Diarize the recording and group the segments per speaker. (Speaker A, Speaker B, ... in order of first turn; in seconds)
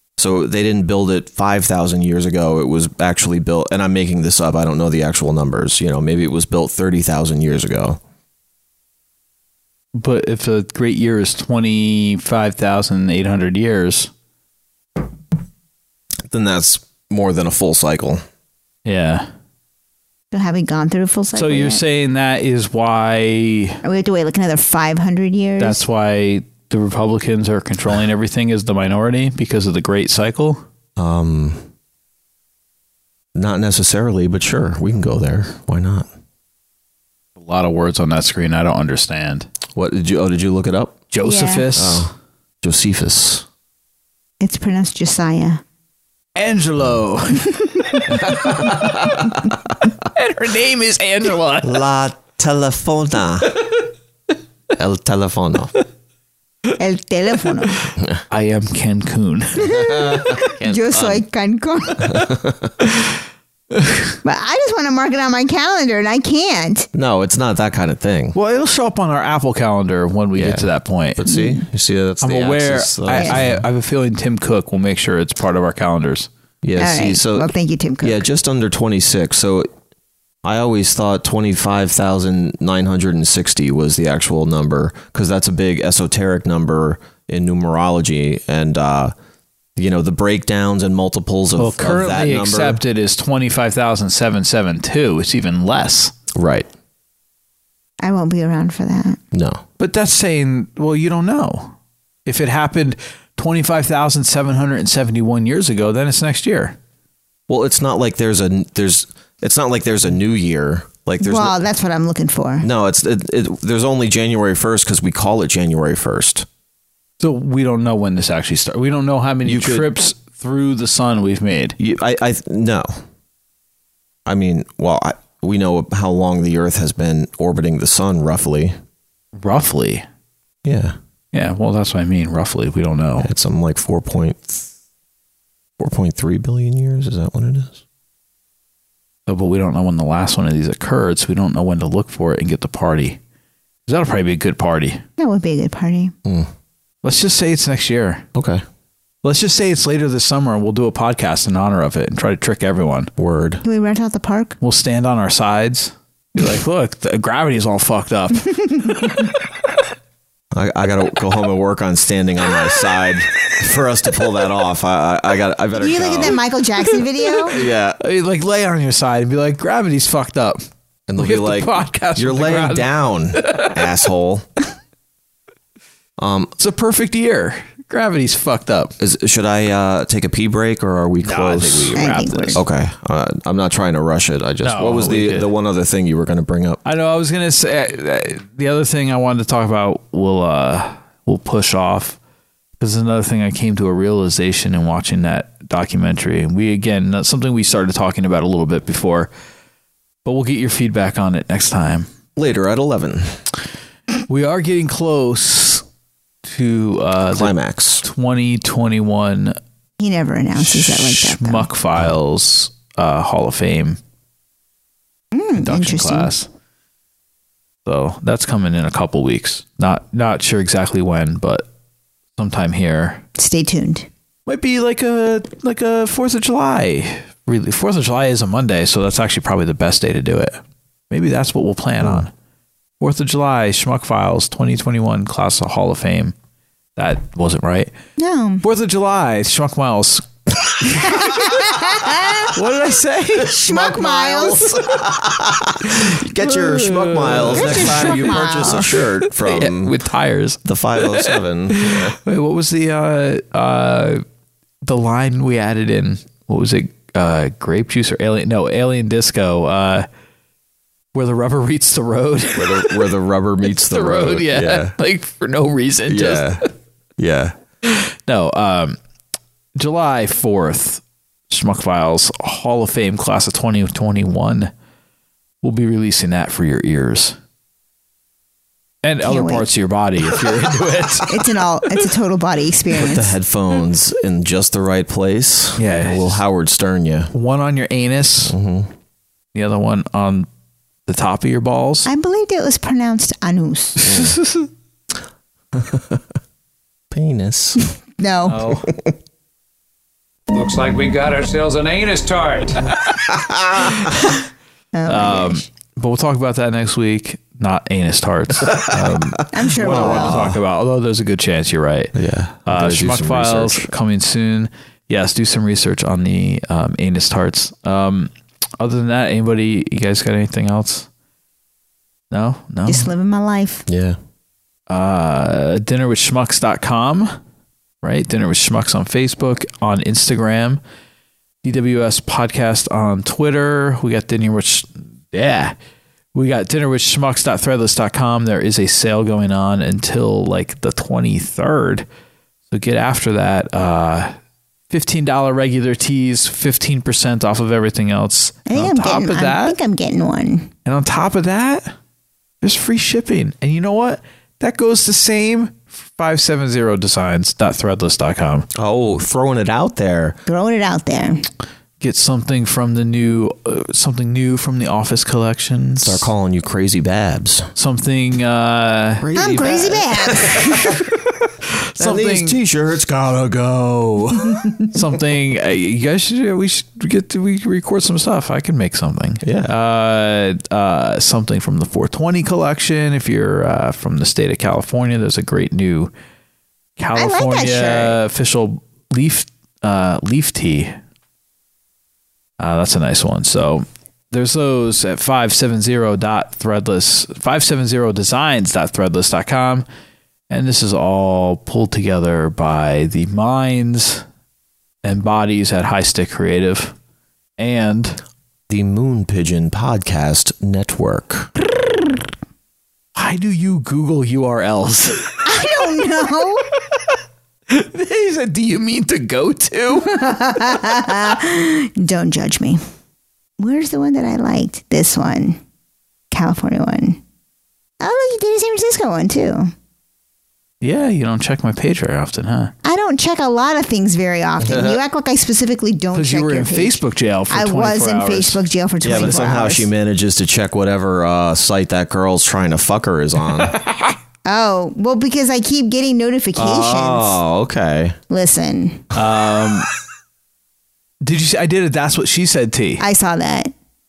Speaker A: 0.2-8.0, 16.3-18.2, 31.0-31.6, 33.4-36.1, 39.8-41.0, 41.7-43.5, 48.1-49.5, 51.6-53.6, 54.8-55.7, 59.9-61.2, 62.0-62.7, 66.9-68.4, 70.4-73.6, 76.6-77.5, 78.0-79.7, 80.4-89.1, 89.8-92.8, 96.3-96.7, 99.3-99.6, 107.5-111.6, 112.6-116.5, 119.5-119.9, 121.8-123.0, 124.3-128.8, 130.6-131.0, 133.2-134.7, 135.8-137.8, 148.3-148.6, 153.2-153.6, 160.5-166.4, 167.5-168.0, 171.1-174.5, 176.2-176.5, 179.0-182.0, 182.5-186.8, 202.4-203.4, 207.3-208.1, 232.0-232.3, 243.6-249.9, 250.7-252.2, 262.6-264.9, 266.1-266.7, 267.2-267.6, 282.9-287.3, 288.5-288.9, 294.0-294.4, 295.7-296.2, 297.1-297.8, 298.5-299.1, 303.4-304.1, 308.7-309.0, 309.6-310.6, 312.1-313.9, 323.9-324.2, 358.7-360.4, 366.0-367.7, 369.2-371.0, 372.0-375.1, 379.4-379.7, 408.7-411.5, 434.6-435.0, 439.0-443.8, 446.6-448.2
Speaker B: 9.9-14.1, 18.9-19.3, 21.4-23.8, 25.6-30.6, 37.4-39.5, 41.1-42.1, 46.4-48.0, 50.1-51.8, 58.3-59.7, 63.7-64.1, 68.3-71.2, 72.2-76.3, 91.6-96.1, 99.8-101.7, 102.3-106.8, 117.2-121.8, 129.4-130.1, 131.3-133.3, 139.3-143.2, 143.9-145.0, 147.0-148.2, 149.2-153.1, 154.6-158.7, 168.0-170.7, 171.2-173.8, 176.6-178.9, 181.2-182.6, 184.6-185.5, 186.8-192.2, 192.8-199.3, 200.2-202.1, 204.3-205.8, 206.4-209.6, 210.6-214.0, 215.6-216.5, 217.9-221.7, 222.4-223.2, 224.5-232.3, 233.0-236.3, 237.0-237.9, 238.6-240.3, 240.9-241.3, 242.5-243.6, 245.9-254.2, 254.8-260.1, 261.1-263.0, 263.7-266.5, 267.8-269.0, 269.8-274.7, 275.6-277.4, 279.0-281.5, 285.8-286.4, 287.3-288.6, 289.5-290.5, 291.1-292.1, 294.1-294.7, 305.1-312.1, 312.7-321.1, 322.3-323.1, 324.9-327.4, 328.0-330.8, 331.6-335.8, 336.3-342.1, 342.7-344.4, 344.9-349.8, 350.9-351.9, 352.6-358.7, 362.0-366.3, 367.8-369.9, 371.7-372.6, 374.9-386.1, 387.0-391.0, 392.6-399.9, 400.5-404.2, 405.0-406.9, 407.6-408.2, 413.2-415.4, 417.7-420.3, 430.8-432.7, 436.1-438.6, 449.1-449.9, 451.2-453.0
Speaker C: 20.3-21.8, 23.8-25.8, 41.2-41.7, 44.4-45.6, 56.8-57.9, 59.6-62.2, 64.2-66.9, 71.3-71.6, 76.8-78.3, 98.0-99.2, 111.2-112.7, 145.2-146.1, 153.6-154.6, 165.8-167.6, 182.0-182.6, 210.0-211.7, 215.3-216.3, 223.4-224.1, 238.2-238.6, 241.0-242.5, 243.4-244.9, 247.5-248.9, 279.2-279.7, 281.3-283.4, 292.1-294.1, 298.2-298.8, 304.9-305.6, 309.5-310.4, 322.9-323.9, 348.7-350.7, 360.5-361.5, 369.4-370.8, 387.1-388.2, 415.4-416.7, 420.0-422.8, 423.6-425.6, 426.3-427.2, 428.0-429.7, 432.8-439.9, 444.5-447.4, 448.3-449.1, 453.0-453.7
Speaker D: 300.5-302.6